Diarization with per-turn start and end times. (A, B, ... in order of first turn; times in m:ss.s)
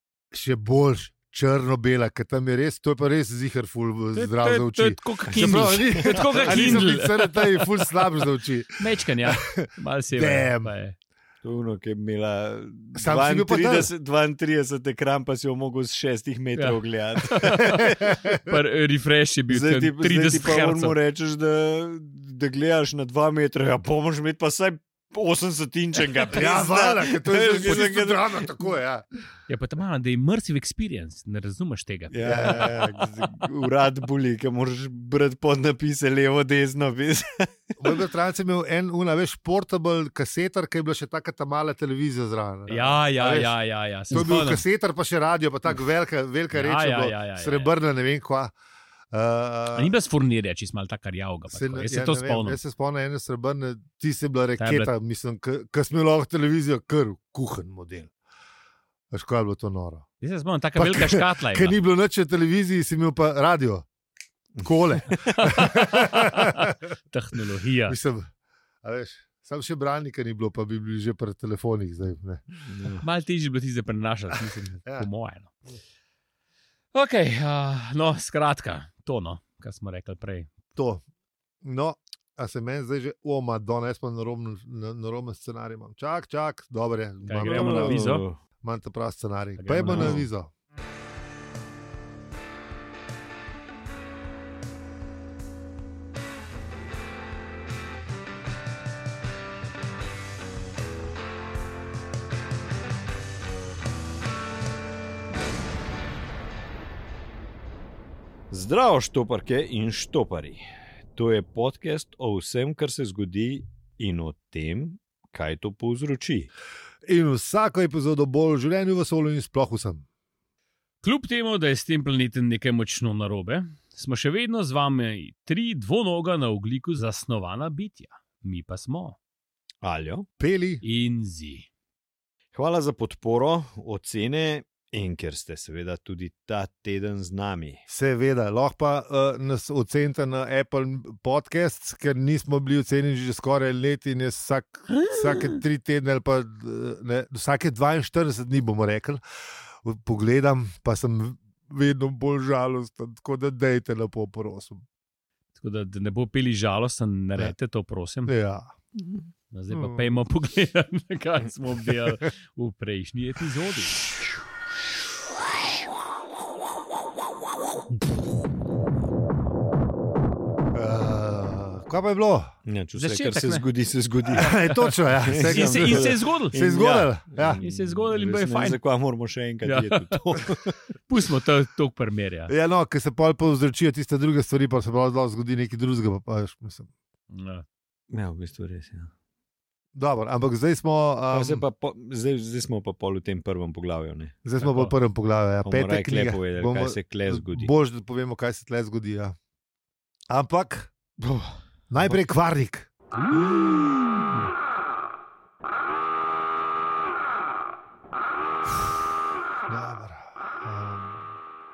0:00.3-0:10.7 A
0:04.1-0:07.9 B
0:05.3-0:06.9 C
0:08.8-0:11.0 B
0:11.4-0:18.1 C
0:13.0-0:13.9 A
0:16.6-0:21.0 B
0:17.7-0:18.6 A
0:19.5-0:28.7 C
0:26.3-0:29.0 A
0:29.5-0:33.0 B
0:32.1-0:38.0 C
0:32.2-0:33.0 A
0:37.8-0:48.5 A
0:42.7-0:44.6 B
0:46.5-0:47.7 B
0:49.1-0:49.9 A
0:49.8-0:52.6 B
0:51.5-0:58.1 A
0:54.6-0:54.9 B
0:59.1-1:00.1 A
1:00.2-1:01.8 B
1:00.8-1:03.9 A
1:04.6-1:05.4 C
1:04.6-1:06.8 A
1:05.4-1:08.0 B
1:07.9-1:08.3 A
1:08.8-1:12.4 A
1:12.6-1:13.0 C
1:13.0-1:15.6 B
1:16.9-1:20.5 B
1:20.8-1:21.0 A
1:21.6-1:28.1 A
1:27.3-1:28.2 B
1:27.4-1:28.4 C
1:28.6-1:30.5 A
1:29.6-1:30.2 B
1:29.9-1:30.2 C
1:48.5-1:50.6 C
1:51.2-1:56.5 C
1:57.0-2:00.0 A
2:01.0-2:09.2 B
2:09.8-2:10.3 C
2:10.4-2:10.8 A
2:10.8-2:11.7 B
2:12.5-2:17.8 C
2:17.9-2:29.2 A
2:24.9-2:25.6 B
2:29.8-2:34.8 A
2:35.6-2:38.3 B
2:38.3-2:38.7 A
2:39.5-2:44.0 B
2:39.7-2:40.1 A
2:50.7-2:52.5 A
2:52.7-2:54.7 C
2:53.0-2:53.6 B
2:54.3-2:57.6 A
2:54.7-2:56.6 B
2:55.2-3:00.8 C
2:57.6-2:58.8 B
2:59.6-3:00.2 B
3:01.1-3:02.5 B
3:02.5-3:06.9 A
3:07.3-3:07.6 B
3:08.1-3:09.1 C
3:10.0-3:11.6 A
3:11.3-3:14.4 C
3:14.4-3:19.4 A
3:14.6-3:14.9 B
3:15.6-3:17.7 C
3:20.3-3:20.9 A
3:21.2-3:22.2 C
3:21.9-3:22.9 A
3:23.1-3:24.4 B
3:23.3-3:24.3 C
3:29.7-3:31.2 A